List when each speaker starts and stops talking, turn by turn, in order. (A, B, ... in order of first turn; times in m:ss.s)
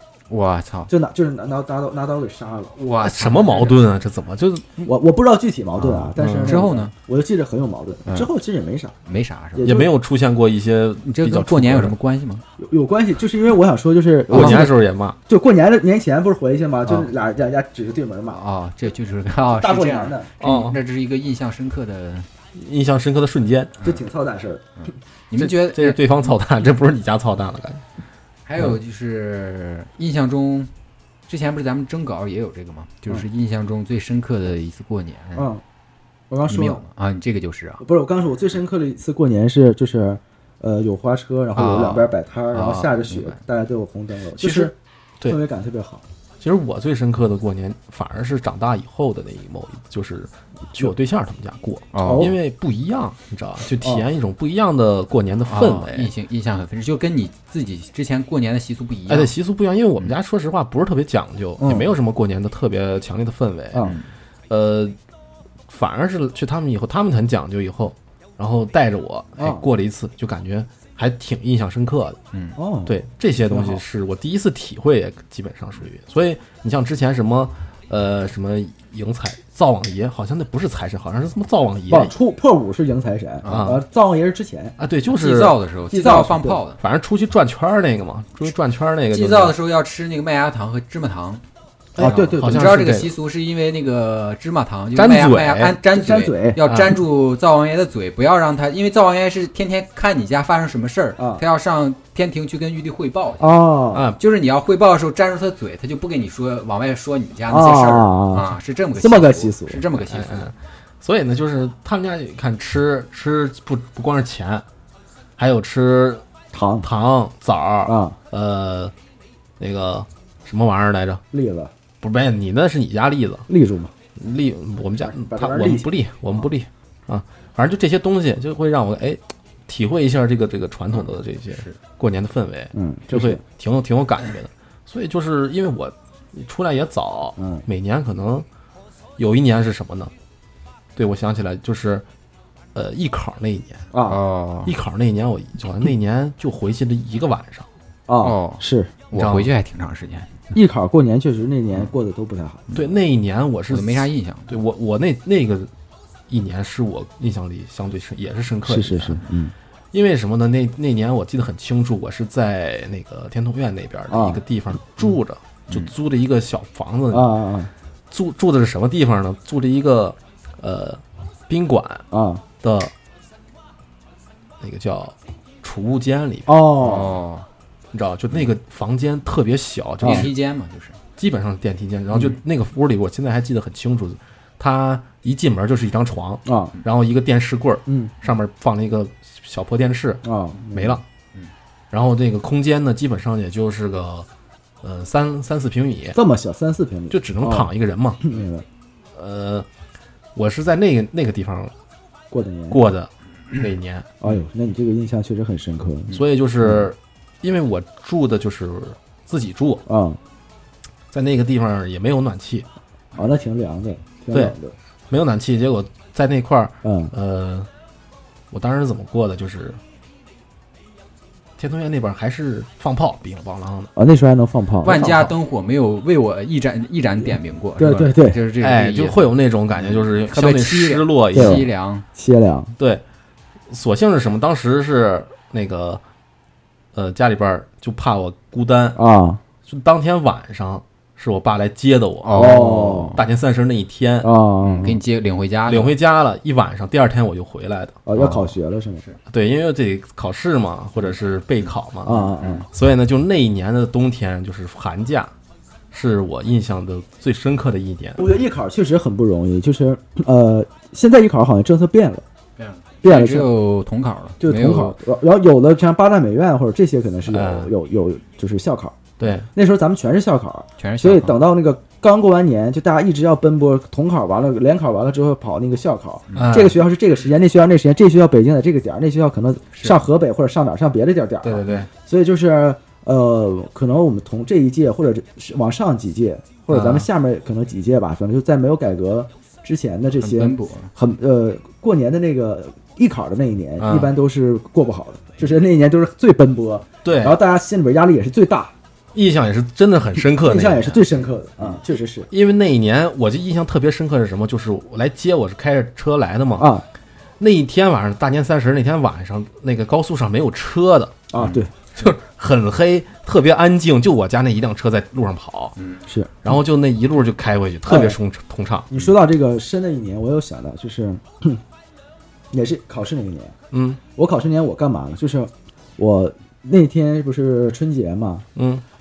0:00.3-0:00.9 A
0:00.9-0:02.8 B
0:02.8-0:03.8 A
0:03.0-0:04.8 C
0:04.8-0:08.9 B
0:06.1-0:06.6 C
0:06.3-0:06.9 A
0:09.0-0:09.8 A
0:09.5-0:09.9 B
0:09.6-0:11.9 C
0:11.0-0:12.4 A
0:12.6-0:18.4 B
0:14.3-0:15.2 C
0:14.3-0:14.7 A
0:18.3-0:22.3 A
0:19.6-0:20.3 B
0:20.4-0:20.7 C
0:22.5-0:23.8 C
0:23.8-0:24.6 B
0:25.3-0:26.0 A
0:25.3-0:27.8 C
0:28.4-0:30.7 A
0:31.3-0:35.5 A
0:35.3-0:35.6 B
0:36.3-0:36.8 B
0:36.5-0:37.8 A
0:37.8-0:46.0 B
0:41.6-0:43.4 A
0:44.4-0:45.4 C
0:46.4-0:56.1 C
0:51.9-0:52.3 A
0:52.0-0:52.4 B
0:55.5-0:59.3 A
0:59.1-1:03.9 C
1:01.6-1:01.9 B
1:03.7-1:04.0 B
1:04.5-1:05.0 C
1:05.7-1:12.2 C
1:09.4-1:09.6 B
1:12.6-1:13.0 B
1:12.8-1:22.1 C
1:13.5-1:13.8 B
1:21.9-1:24.8 B
1:23.4-1:23.8 A
1:23.4-1:23.8 C
1:24.8-1:25.6 C
1:25.1-1:26.8 A
1:25.9-1:26.6 B
1:26.8-1:29.5 C
1:29.1-1:31.4 A
1:31.9-1:33.1 C
1:32.0-1:32.8 B
1:32.0-1:43.5 A
1:35.0-1:35.8 C
1:35.9-1:36.6 B
1:36.6-1:37.0 C
1:41.2-1:41.4 B
1:43.4-1:44.1 B
1:43.9-1:44.2 C
1:44.2-1:50.5 A
1:47.5-1:49.8 B
1:50.1-1:54.6 C
1:55.4-1:56.2 C
1:56.5-1:56.9 B
1:56.8-1:58.9 C
1:57.8-1:58.2 B
1:59.6-2:01.2 C
2:01.3-2:01.7 B
2:02.0-2:03.4 C
2:03.5-2:03.9 B
2:04.2-2:18.4 C
2:05.0-2:06.5 B
2:10.9-2:11.8 A
2:12.7-2:13.4 B
2:17.4-2:17.6 B
2:19.2-2:20.1 C
2:21.0-2:22.0 C
2:22.7-2:23.9 C
2:23.9-2:24.2 B
2:24.1-2:24.7 A
2:24.6-2:27.7 C
2:28.1-2:28.9 B
2:28.2-2:30.5 A
2:29.1-2:29.5 C
2:30.5-2:32.6 B
2:32.7-2:35.7 C
2:33.7-2:34.5 A
2:36.3-2:39.2 C
2:38.6-2:39.5 B
2:39.9-2:47.4 C
2:44.1-2:44.4 B
2:47.1-2:47.7 B
2:48.1-2:52.0 C
2:52.1-2:52.4 B
2:52.6-2:52.9 C
2:54.6-2:56.5 C
2:56.5-2:57.2 B
2:56.8-2:57.5 A
2:57.9-3:00.3 C
3:00.0-3:01.0 A
3:00.0-3:00.3 B
3:01.2-3:11.0 C
3:06.4-3:06.7 B
3:07.9-3:08.1 B
3:10.2-3:11.0 B
3:11.9-3:14.3 C
3:14.8-3:16.2 C
3:16.1-3:17.7 B
3:17.1-3:18.2 C
3:18.2-3:18.6 B
3:19.1-3:19.6 C
3:20.3-3:21.7 C
3:22.3-3:22.8 B
3:22.7-3:24.1 C
3:24.2-3:26.9 B
3:26.1-3:29.8 C
3:29.9-3:30.2 B
3:31.1-3:32.7 C
3:33.1-3:34.7 B
3:35.1-3:37.7 C
3:36.8-3:37.1 B
3:38.5-3:39.8 C
3:41.6-3:43.9 C
3:44.0-3:45.1 B
3:44.8-3:52.0 A
3:44.9-3:45.3 C
3:47.3-3:48.4 B
3:48.6-3:51.6 C
3:51.3-3:51.6 B
3:52.2-3:52.7 B
3:53.7-3:56.0 C
3:56.9-3:59.0 C
3:59.0-3:59.4 B
3:59.7-4:04.3 C
4:02.2-4:03.2 A
4:02.3-4:03.2 B
4:04.2-4:05.0 B
4:04.6-4:05.9 A
4:05.7-4:08.0 C
4:08.0-4:09.0 B
4:08.1-4:08.5 A
4:09.3-4:15.3 C
4:12.0-4:12.6 B
4:12.4-4:12.6 A
4:15.9-4:18.2 C
4:18.2-4:22.2 B
4:22.6-4:25.0 A
4:23.0-4:23.5 B
4:24.4-4:58.7 B
4:27.3-4:27.7 C
4:29.2-4:29.5 C
4:30.8-4:31.4 A
4:36.3-4:36.6 A
4:36.3-4:36.8 C
4:39.7-4:40.0 A
4:41.4-4:41.9 C
4:46.7-4:47.0 C
4:50.2-4:50.9 A
4:53.8-4:54.1 C
4:57.0-4:57.4 C
4:59.1-5:01.0 C
5:00.4-5:02.3 B
5:02.3-5:06.7 C
5:06.6-5:06.8 B
5:07.4-5:11.4 C
5:11.3-5:11.7 B
5:12.0-5:15.7 C
5:16.0-5:16.3 B
5:16.4-5:19.0 C
5:17.8-5:18.2 B
5:18.9-5:21.6 B
5:22.5-5:23.5 B
5:23.7-5:24.0 C
5:24.2-5:28.4 B
5:28.5-5:28.8 C